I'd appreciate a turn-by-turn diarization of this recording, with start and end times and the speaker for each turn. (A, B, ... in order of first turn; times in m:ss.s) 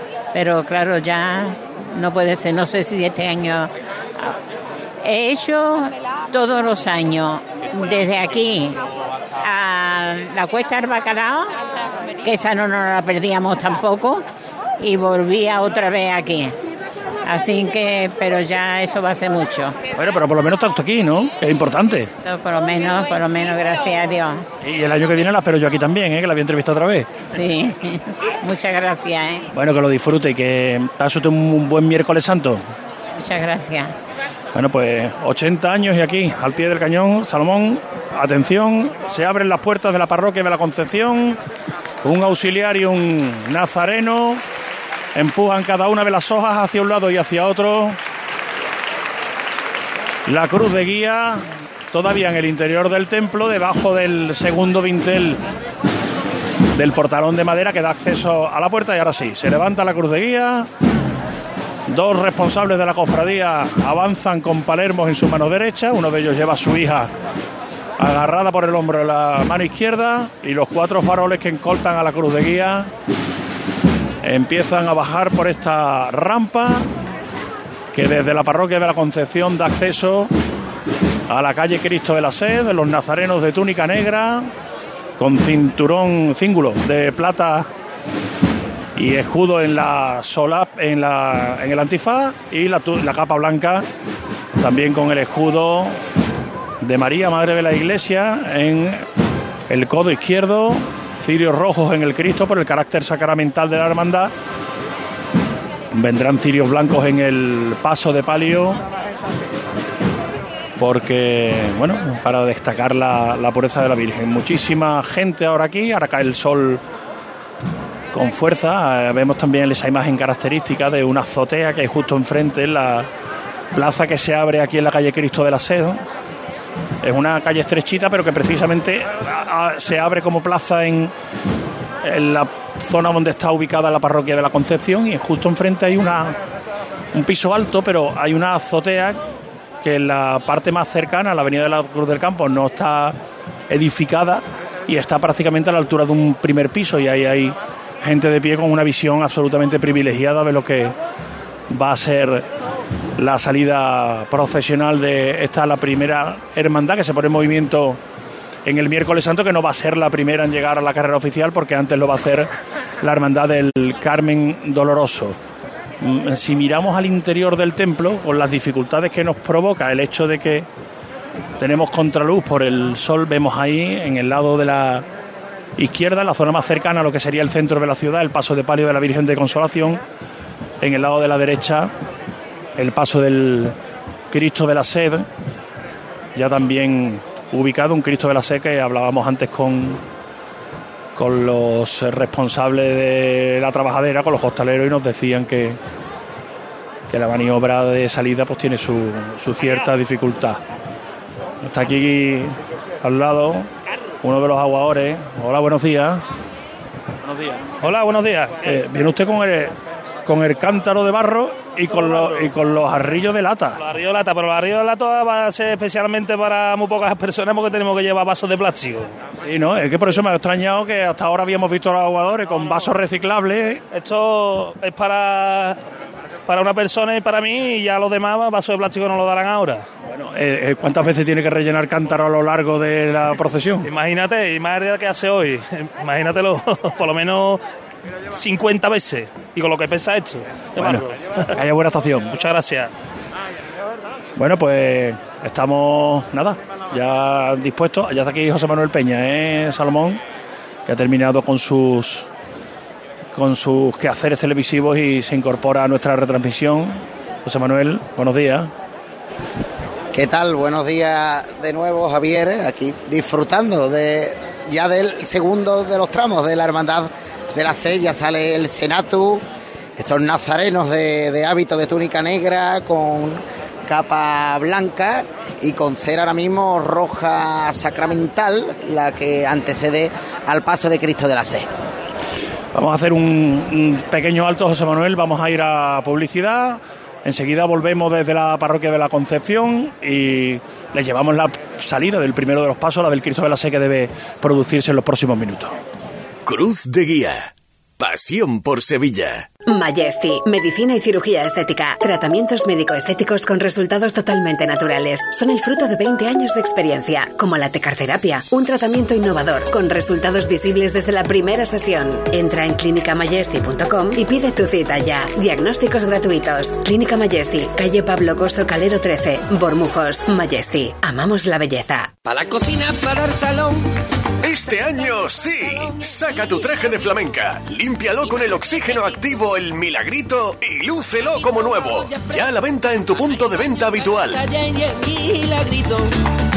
0:00.3-0:04.3 A
0:05.0-0:08.8 A
0:09.4-0:11.5 A
0:12.2-0:14.2 A
0:14.8-0:16.5 A
0:17.2-0:19.7 A
0:20.0-0:22.1 B
0:22.2-0:24.4 A
0:24.6-0:27.1 B
0:27.3-0:29.5 A
0:29.5-0:32.6 B
0:33.1-0:33.9 A
0:34.5-0:41.4 B
0:42.0-0:44.4 B
0:45.1-0:48.0 B
0:50.2-0:55.4 B
0:56.7-1:00.7 B
1:01.9-1:07.1 B
1:08.0-1:12.9 B
1:14.2-1:16.9 B
1:17.9-1:20.3 B
1:21.3-1:24.5 B
1:25.2-1:27.7 B
1:29.0-1:33.8 B
1:34.6-1:36.0 B
1:36.8-1:39.0 B
1:39.7-1:44.3 B
1:45.9-1:48.8 B
1:50.8-1:56.8 B
1:58.1-2:03.1 B
2:03.7-2:06.0 B
2:07.0-2:11.1 B
2:12.0-2:16.4 B
2:17.1-2:19.2 B
2:19.8-2:23.2 B
2:23.7-2:30.9 B
2:31.7-2:32.4 B
2:33.2-2:38.0 B
2:38.6-2:42.5 B
2:43.0-2:45.4 B
2:46.0-2:50.7 B
2:51.6-2:55.0 B
2:55.8-3:00.0 B
3:00.8-3:01.9 B
3:02.8-3:03.7 B
3:04.3-3:05.2 B
3:06.4-3:10.0 B
3:11.2-3:15.8 B
3:17.1-3:20.6 B
3:21.6-3:23.7 B
3:24.2-3:26.2 B
3:27.2-3:27.6 B
3:27.8-3:28.7 C
3:28.6-3:29.7 B
3:30.2-3:33.8 B
3:31.9-3:32.5 C
3:33.8-3:39.1 C
3:39.4-3:43.8 B
3:43.9-3:45.8 C
3:46.5-3:49.8 C
3:50.1-3:53.9 B
3:53.8-3:57.6 C
3:58.3-4:01.2 C
4:00.8-4:02.3 B
4:02.3-4:02.9 C
4:04.4-4:10.2 B
4:10.8-4:12.3 B
4:13.3-4:18.7 B
4:20.1-4:29.4 D
4:30.0-4:41.7 D
4:42.7-4:55.8 B
4:56.4-4:59.5 E
4:59.6-5:22.2 F
5:22.2-5:23.9 G
5:24.4-5:34.4 E
5:34.3-5:36.1 G